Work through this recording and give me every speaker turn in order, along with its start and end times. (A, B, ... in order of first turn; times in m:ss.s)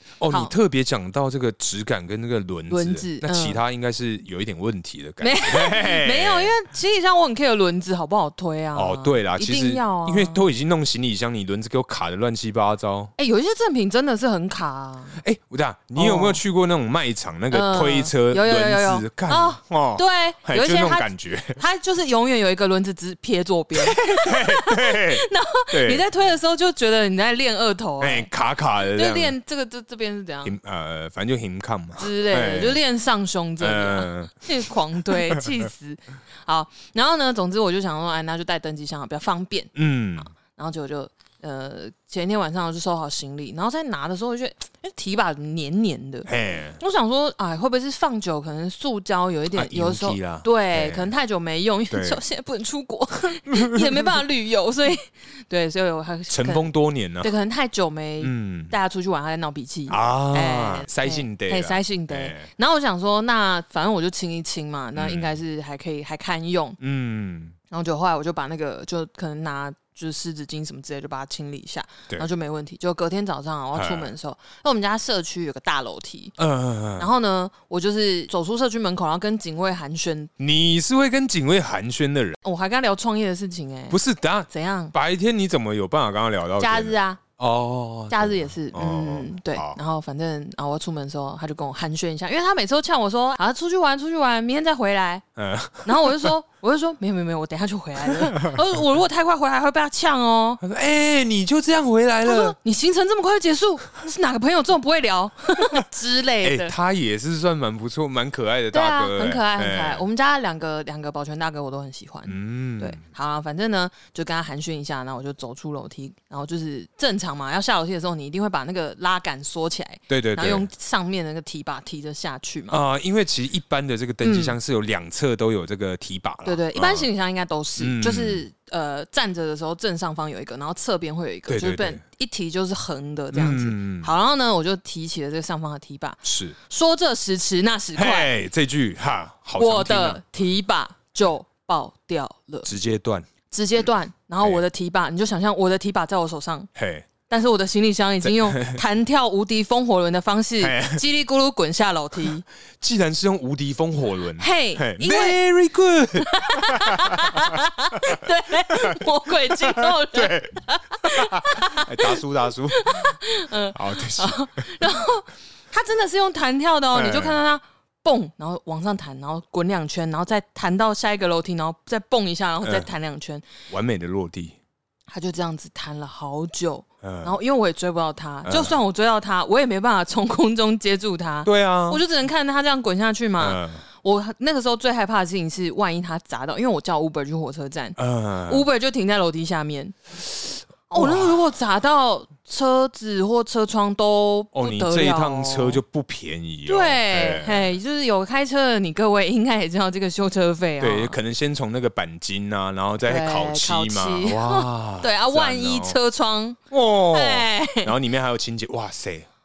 0:00.2-0:06.6 A
0:02.7-0:03.6 B
0:05.2-0:10.4 B
0:08.8-0:13.1 A
0:13.2-0:15.2 B
0:15.2-0:21.6 A
0:16.0-0:16.4 B
0:17.5-0:28.3 B
0:23.8-0:26.0 A
0:28.0-0:29.4 A
0:28.8-0:30.5 B
0:30.4-0:32.8 A
0:32.0-0:39.7 B
0:33.6-0:35.7 A
0:39.8-0:40.3 A
0:40.3-0:56.7 B
0:46.3-0:46.8 A
0:49.5-0:51.1 A
0:51.9-0:52.2 A
0:53.5-0:54.2 A
0:56.3-0:57.3 A
0:57.2-1:06.8 B
0:58.2-0:58.7 A
0:59.9-1:02.5 A
1:05.0-1:05.4 A
1:06.8-1:07.6 A
1:07.7-1:16.4 B
1:13.8-1:14.1 A
1:16.4-1:17.1 A
1:17.0-1:20.3 B
1:20.4-1:22.4 A
1:22.4-1:24.0 B
1:23.9-1:29.8 A
1:24.5-1:24.9 B
1:26.6-1:27.2 B
1:28.1-1:35.2 B
1:35.4-1:36.3 A
1:35.8-1:40.6 B
1:38.0-1:38.6 A
1:40.6-1:42.6 A
1:42.2-1:46.7 B
1:46.4-1:50.0 A
1:48.7-2:02.8 B
1:52.3-1:53.0 A
2:00.1-2:00.7 A
2:02.7-2:07.1 A
2:04.2-2:04.6 B
2:06.4-2:18.3 B
2:07.8-2:08.4 A
2:11.5-2:12.0 A
2:13.3-2:14.1 A
2:16.2-2:16.6 A
2:18.0-2:20.2 A
2:19.6-2:22.7 B
2:22.7-2:23.3 A
2:23.5-2:26.7 B
2:26.8-2:27.1 A
2:27.3-2:32.5 B
2:28.2-2:28.8 A
2:30.6-2:31.0 A
2:32.8-2:43.2 A
2:34.4-2:35.4 B
2:36.2-2:53.4 B
2:43.7-2:44.4 A
2:46.9-2:47.4 A
2:53.7-2:54.6 A
2:55.1-3:08.0 B
2:57.0-2:57.4 A
2:58.5-2:58.8 A
3:01.4-3:02.0 A
3:03.4-3:03.8 A
3:08.0-3:08.7 A
3:08.5-3:15.8 B
3:10.9-3:11.4 A
3:14.5-3:17.7 A
3:16.7-3:21.2 B
3:20.8-3:26.0 A
3:23.0-3:27.9 B
3:26.7-3:29.3 A